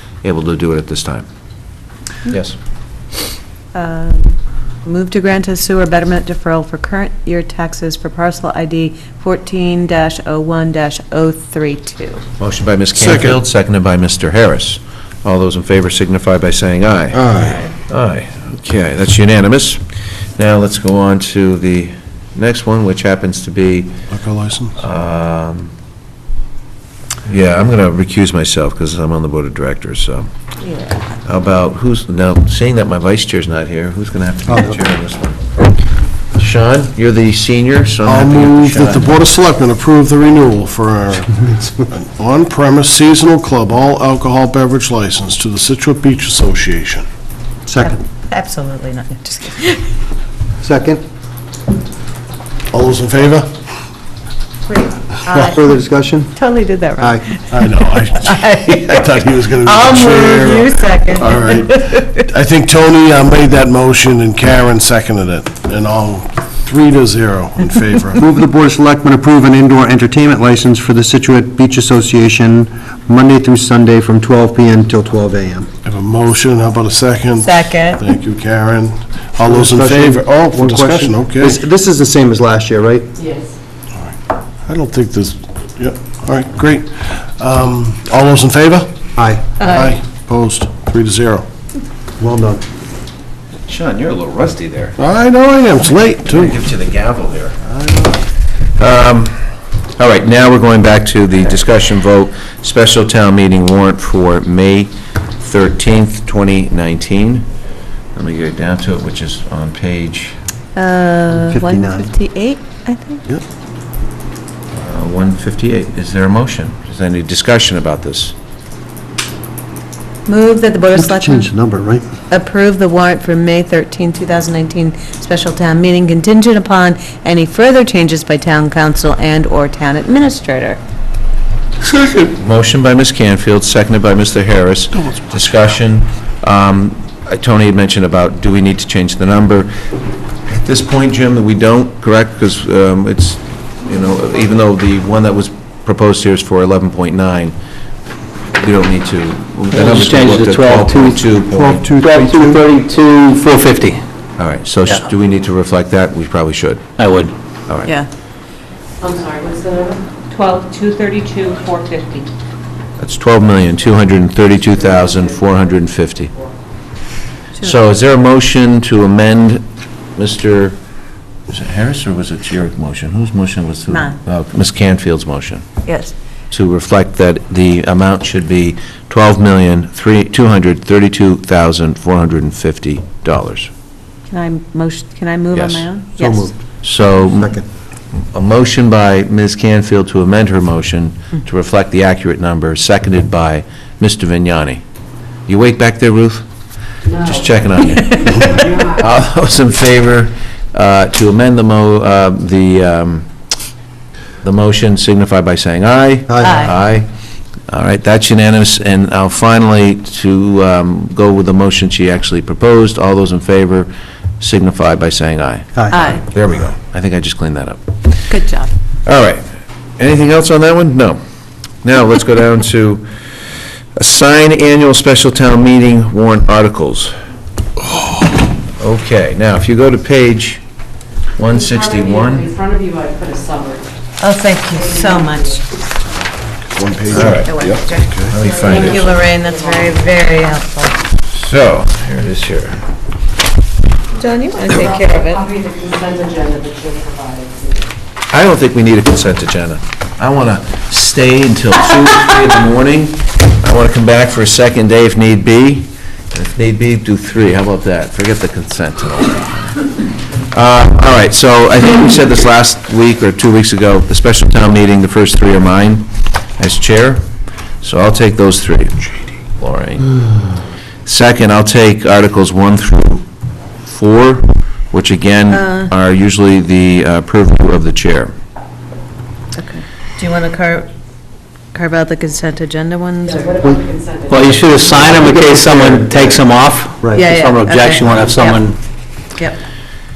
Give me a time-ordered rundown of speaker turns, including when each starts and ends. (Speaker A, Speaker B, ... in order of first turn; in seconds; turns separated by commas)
Speaker A: 0.2-1.3, Speaker A: 2.3-2.6, Speaker B: 3.7-12.2, Speaker A: 12.4-19.8, Speaker C: 13.0-13.4, Speaker C: 17.1-17.6, Speaker B: 17.4-17.7, Speaker A: 20.4-23.9, Speaker C: 24.1-24.8, Speaker A: 24.8-25.7, Speaker A: 27.3-30.3, Speaker B: 30.6-31.0, Speaker A: 31.2-35.5, Speaker A: 36.4-39.1, Speaker C: 38.0-41.4, Speaker D: 41.3-41.9, Speaker C: 41.9-47.1, Speaker D: 47.7-48.0, Speaker B: 47.8-49.9, Speaker D: 50.6-51.0, Speaker C: 52.7-53.5, Speaker B: 54.7-55.8, Speaker D: 55.4-56.3, Speaker B: 56.4-62.3, Speaker C: 57.5-68.2, Speaker D: 68.2-75.7, Speaker C: 75.8-81.6, Speaker B: 77.4-78.0, Speaker D: 79.4-83.1, Speaker E: 83.2-83.5, Speaker C: 84.7-89.0, Speaker D: 89.2-89.5, Speaker C: 89.6-91.5, Speaker B: 89.6-89.9, Speaker D: 92.2-92.6, Speaker A: 93.7-95.0, Speaker C: 95.0-96.6, Speaker A: 96.2-97.6, Speaker A: 98.8-99.4, Speaker A: 100.0-107.5, Speaker A: 108.2-110.4, Speaker B: 110.8-113.2, Speaker D: 111.3-112.1, Speaker A: 114.7-118.3, Speaker B: 120.3-121.5, Speaker D: 121.0-122.0, Speaker B: 122.3-130.8, Speaker A: 132.3-139.7, Speaker A: 140.5-147.6, Speaker A: 148.5-151.9, Speaker F: 149.7-151.3, Speaker D: 151.5-152.6, Speaker F: 152.0-154.0, Speaker A: 154.4-156.8, Speaker F: 157.0-157.3, Speaker E: 159.0-160.1, Speaker B: 160.3-161.3, Speaker A: 163.0-166.3, Speaker A: 167.6-170.8, Speaker A: 171.5-175.7, Speaker B: 173.9-174.2, Speaker B: 175.9-176.1, Speaker A: 176.5-183.7, Speaker B: 184.3-186.5, Speaker A: 185.5-185.9, Speaker D: 186.2-186.5, Speaker A: 186.8-187.6, Speaker D: 187.4-187.6, Speaker A: 188.2-194.8, Speaker A: 195.5-196.5, Speaker E: 197.1-197.5, Speaker A: 197.2-203.3, Speaker E: 198.4-198.8, Speaker A: 204.4-207.1, Speaker B: 206.4-206.7, Speaker A: 207.7-217.8, Speaker B: 215.9-216.2, Speaker B: 218.3-218.7, Speaker A: 219.1-219.4, Speaker A: 220.0-221.2, Speaker A: 221.8-223.0, Speaker A: 224.0-227.1, Speaker A: 228.8-230.6, Speaker A: 231.4-232.5, Speaker E: 231.6-233.9, Speaker B: 234.2-235.6, Speaker E: 234.8-235.6, Speaker C: 236.6-238.3, Speaker A: 237.1-237.6, Speaker B: 237.3-241.0, Speaker A: 238.3-239.2, Speaker E: 238.6-240.1, Speaker A: 241.3-242.8, Speaker B: 244.2-245.5, Speaker E: 244.7-247.9, Speaker A: 248.3-259.6, Speaker A: 260.5-267.2, Speaker A: 267.8-269.0, Speaker A: 269.6-270.1, Speaker A: 271.1-273.2, Speaker A: 273.8-278.3, Speaker B: 275.5-275.9, Speaker B: 279.6-280.9, Speaker B: 281.7-283.7, Speaker E: 283.3-285.7, Speaker F: 284.3-288.8, Speaker D: 285.3-286.1, Speaker D: 287.0-287.3, Speaker B: 287.1-288.7